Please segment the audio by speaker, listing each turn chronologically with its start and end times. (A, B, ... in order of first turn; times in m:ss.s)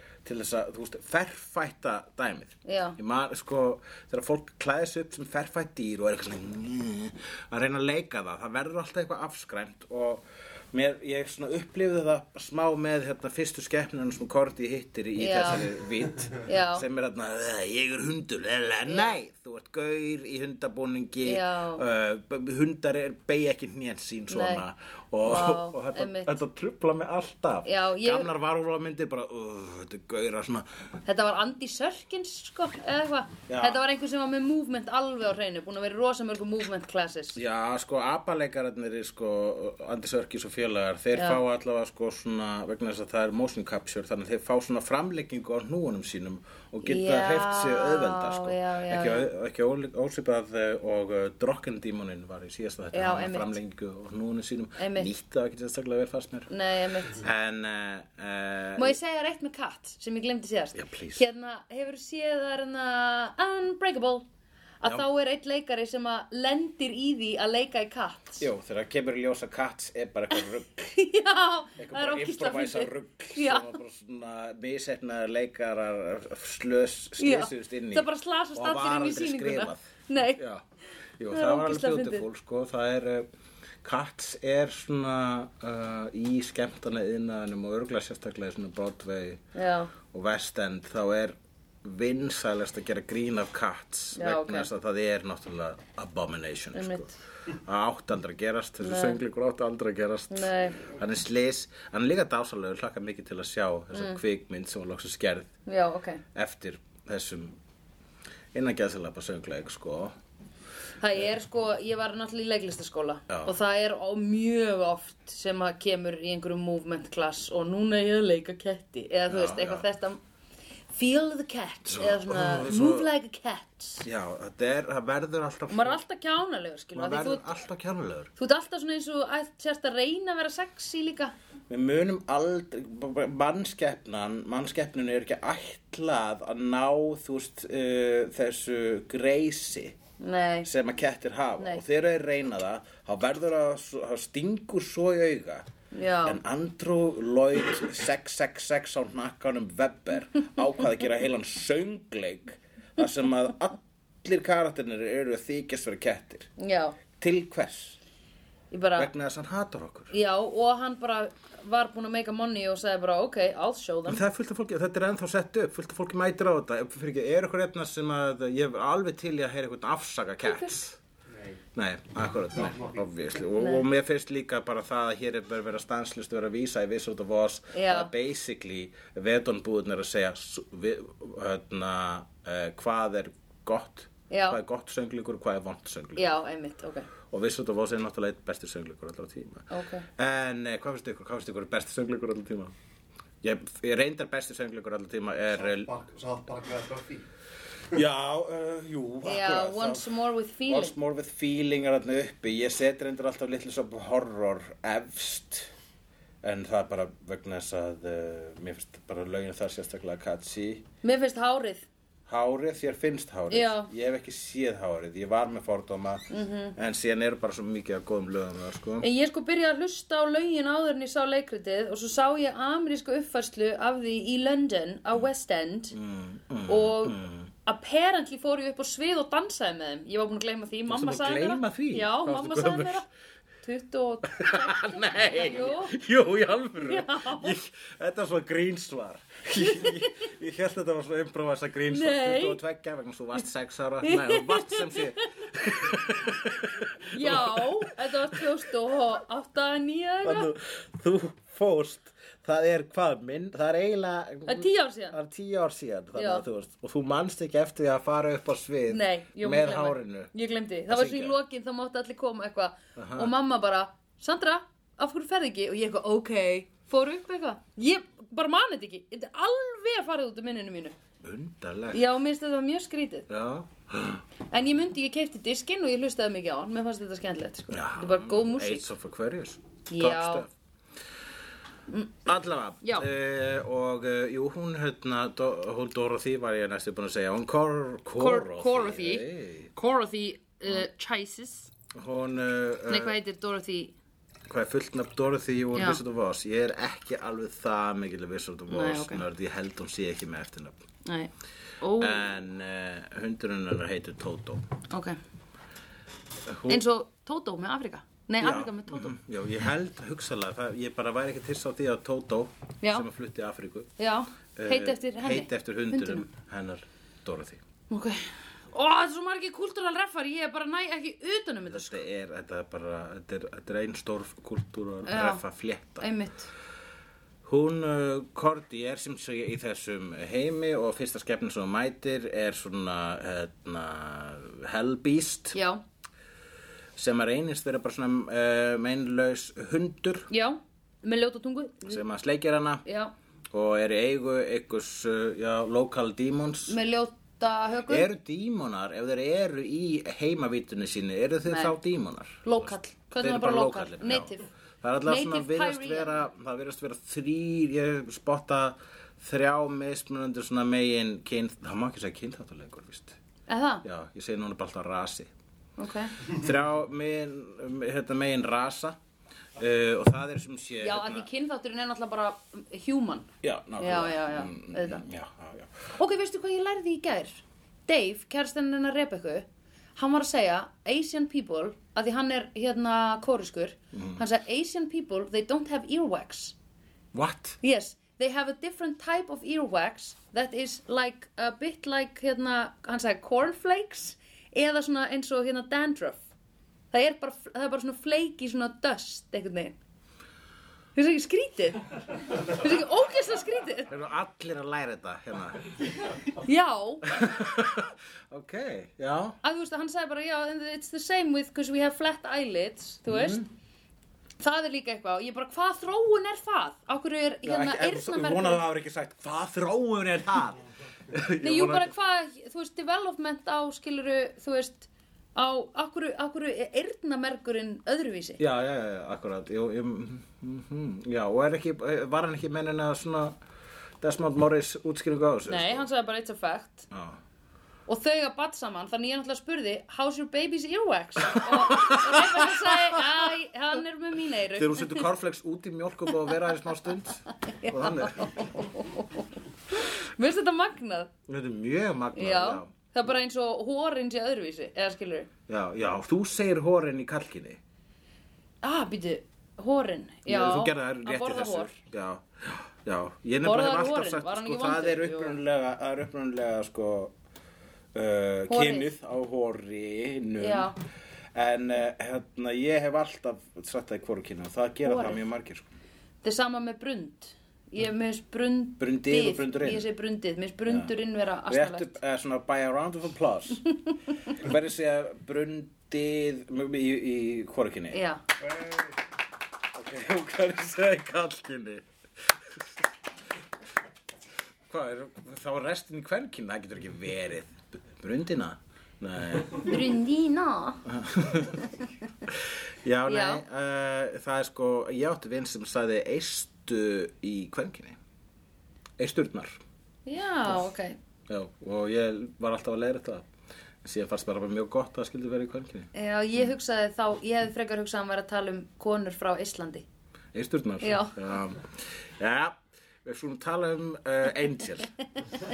0:00.2-0:30.7 A
0:02.6-0:03.0 B
0:15.2-0:15.7 B
0:16.4-0:16.8 B
0:18.9-0:19.1 B
0:21.2-0:21.8 B
0:24.3-0:24.6 B
0:25.2-0:26.3 B
0:27.6-0:28.3 B
0:31.0-0:37.4 B
0:33.5-0:33.8 A
0:37.3-0:56.5 A
0:41.1-0:41.4 B
0:46.8-0:49.3 B
0:52.9-0:53.5 B
0:54.8-0:55.1 B
0:56.5-0:57.2 B
0:57.0-0:59.0 A
0:58.8-1:04.2 B
1:00.7-1:01.2 A
1:04.8-1:08.4 B
1:08.4-1:10.9 A
1:10.9-1:13.8 B
1:11.8-1:20.6 A
1:17.2-1:20.4 B
1:21.2-1:23.3 A
1:21.3-1:22.2 B
1:23.8-1:29.4 A
1:29.5-1:29.9 B
1:30.0-1:45.5 A
1:34.1-1:34.7 B
1:36.7-1:37.1 B
1:38.8-1:39.2 B
1:40.3-1:40.8 B
1:43.9-1:44.2 B
1:45.6-1:46.2 B
1:46.3-1:47.6 A
1:48.5-1:50.1 A
1:51.0-2:00.2 B
1:53.3-1:53.6 A
1:59.3-1:59.9 A
2:00.9-2:04.0 B
2:01.9-2:03.1 A
2:04.0-2:06.0 A
2:05.7-2:07.5 B
2:06.9-2:08.3 A
2:08.4-2:11.3 B
2:11.7-2:20.0 A
2:20.2-2:20.7 B
2:20.6-2:25.6 A
2:25.9-2:26.4 B
2:26.2-2:36.5 A
2:36.6-2:37.0 B
2:37.2-2:38.0 A
2:38.7-2:39.1 B
2:39.0-2:40.1 A
2:40.1-2:44.2 B
2:44.1-2:51.0 A
2:50.4-2:50.7 B
2:51.3-2:51.6 C
2:51.7-3:06.3 A
2:52.5-2:53.0 C
2:53.6-2:53.9 B
2:57.7-2:58.1 B
3:04.3-3:04.6 B
3:06.2-3:07.1 B
3:07.3-3:12.7 A
3:09.7-3:10.0 B
3:13.4-3:15.9 A
3:15.6-3:17.2 C
3:17.9-3:20.1 A
3:19.2-3:20.9 B
3:20.6-3:25.7 A
3:26.4-3:30.8 A
3:31.0-3:31.9 B
3:32.3-3:39.1 A
3:33.5-3:33.9 B
3:36.3-3:36.8 B
3:39.0-3:46.0 B
3:45.9-3:47.5 A
3:46.7-3:53.0 B
3:50.9-3:53.0 A
3:53.6-3:56.0 B
3:54.2-4:08.5 A
3:56.8-3:57.6 B
3:59.6-4:00.1 B
4:01.9-4:02.6 B
4:04.0-4:05.2 B
4:07.1-4:10.5 B
4:10.2-4:20.3 A
4:14.4-4:15.2 B
4:16.1-4:16.4 B
4:18.9-4:30.9 B
4:20.9-4:21.4 A
4:23.0-4:23.3 A
4:31.2-4:32.0 A
4:31.9-4:33.3 B
4:33.3-4:34.2 A
4:34.5-4:38.8 B
4:37.7-4:40.5 A
4:39.9-4:40.4 B
4:42.2-4:49.7 A
4:42.8-4:43.1 B
4:48.2-4:51.7 B
4:51.9-4:53.2 A
4:52.9-4:53.9 B
4:54.5-5:00.8 A
4:55.7-4:56.0 B
4:58.7-4:59.2 B
5:01.0-5:02.2 B
5:02.0-5:04.7 A
5:04.9-5:05.2 B
5:06.4-5:06.8 A
5:06.7-5:09.1 B
5:08.4-5:13.9 A
5:12.8-5:13.1 B
5:14.0-5:16.3 B
5:14.6-5:17.6 A
5:17.9-5:22.0 B
5:21.7-5:26.1 A
5:25.0-5:25.4 B
5:26.0-5:26.5 B
5:27.4-5:35.6 A
5:35.5-5:35.8 B
5:37.0-5:40.3 A
5:40.3-5:42.0 B
5:41.9-5:42.8 A
5:42.8-5:43.1 B
5:43.5-5:46.8 A
5:46.7-5:48.1 B
5:47.9-6:03.2 A
5:51.4-5:51.8 B
5:52.4-5:54.5 B
5:55.0-5:56.2 B
6:03.5-6:03.8 B
6:03.8-6:05.3 A
6:05.8-6:06.2 B
6:06.2-6:09.0 A
6:09.6-6:11.3 A
6:10.8-6:15.0 B
6:13.4-6:15.9 A
6:15.9-6:26.5 B
6:23.9-6:24.2 A
6:27.1-6:27.6 A
6:27.6-6:36.2 B
6:36.9-6:39.8 B
6:41.0-6:43.9 B
6:43.9-6:45.8 A
6:46.4-6:47.1 B
6:47.0-6:49.4 A
6:49.4-6:53.4 B
6:53.1-6:53.5 A
6:54.4-6:58.6 B
6:57.4-7:01.9 A
7:01.4-7:08.4 B
7:08.4-7:13.4 A
7:14.0-7:15.8 A
7:15.4-7:16.9 B
7:16.9-7:17.2 A
7:17.9-7:25.0 B
7:21.3-7:23.2 A
7:24.5-7:28.6 A
7:27.4-7:31.1 B
7:31.3-7:32.7 A
7:32.1-7:35.3 B
7:35.5-7:37.6 A
7:38.6-7:41.7 B
7:40.2-7:47.1 A
7:43.4-7:45.4 B
7:47.9-7:50.7 A
7:48.5-7:48.9 B
7:50.4-7:50.8 B
7:51.3-7:55.7 A
7:54.8-7:55.2 B
7:56.2-8:02.0 B
7:58.8-7:59.9 A
8:01.5-8:03.6 A
8:04.3-8:08.8 A
8:07.9-8:08.2 B
8:09.7-8:12.6 A
8:14.7-8:19.8 A
8:19.6-8:20.8 B
8:20.8-8:21.6 A
8:22.3-8:28.0 A
8:23.1-8:23.4 B
8:29.0-8:29.6 A
8:30.0-8:31.0 B
8:31.3-8:33.3 A
8:33.8-8:35.9 A
8:35.9-8:39.8 B
8:40.3-8:44.9 A
8:40.8-8:41.2 B